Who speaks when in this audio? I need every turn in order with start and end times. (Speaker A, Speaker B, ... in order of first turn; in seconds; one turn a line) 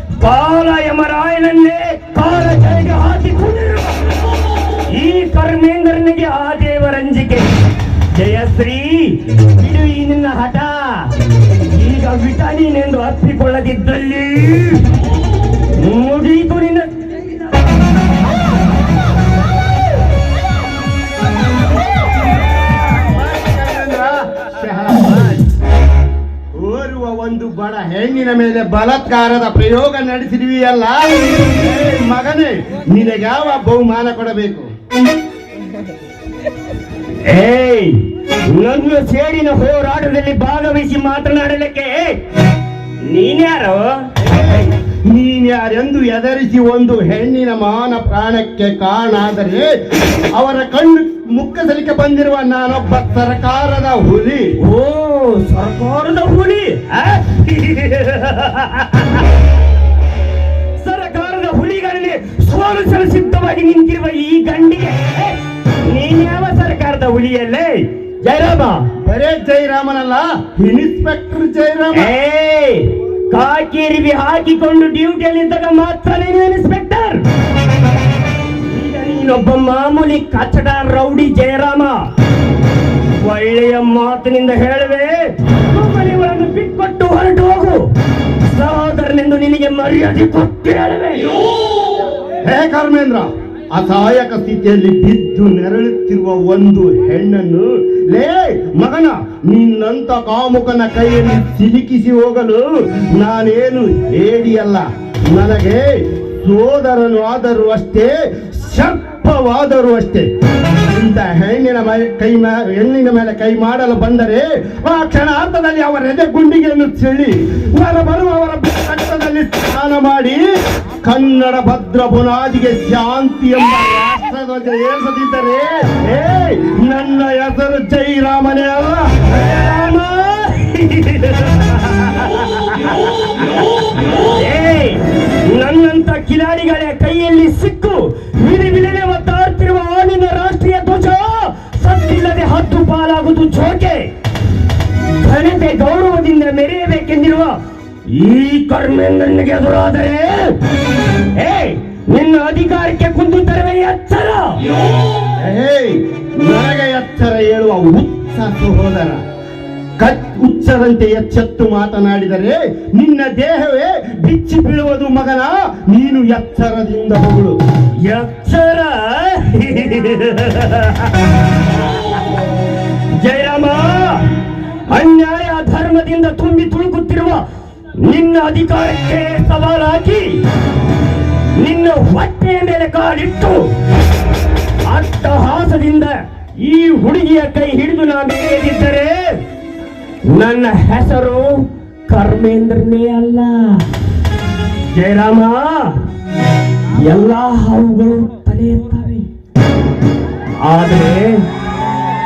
Speaker A: 0.2-4.2
Speaker A: 4.9-7.5
Speaker A: 8.1-11.1
Speaker A: 11.7-14.8
Speaker A: 15.8-16.9
Speaker B: 22.9-25.4
Speaker B: 26.6-34.7
Speaker A: 37.3-37.9
Speaker A: 38.5-42.2
Speaker A: 43.1-44.7
Speaker B: 45.1-49.7
Speaker B: 50.3-54.5
Speaker A: 54.6-59.2
Speaker A: 60.8-68.9
Speaker B: 69.0-72.1
Speaker A: 71.9-77.2
Speaker A: 78.7-82.0
Speaker A: 83.2-85.2
Speaker A: 85.7-87.8
Speaker A: 88.5-91.3
Speaker B: 92.4-105.8
Speaker B: 106.4-110.3
Speaker B: 110.9-120.4
Speaker B: 121.0-129.2
Speaker A: 129.3-133.4
Speaker A: 134.4-144.1
Speaker A: 145.2-147.6
Speaker A: 148.1-150.6
Speaker A: 151.3-154.6
Speaker B: 155.4-159.2
Speaker B: 160.0-167.6
Speaker A: 168.1-171.2
Speaker A: 173.2-174.2
Speaker A: 174.9-177.4
Speaker A: 178.0-180.4
Speaker A: 181.6-183.6
Speaker A: 184.9-189.2
Speaker A: 190.3-193.8
Speaker A: 194.9-196.0
Speaker A: 197.0-199.3
Speaker A: 200.7-201.4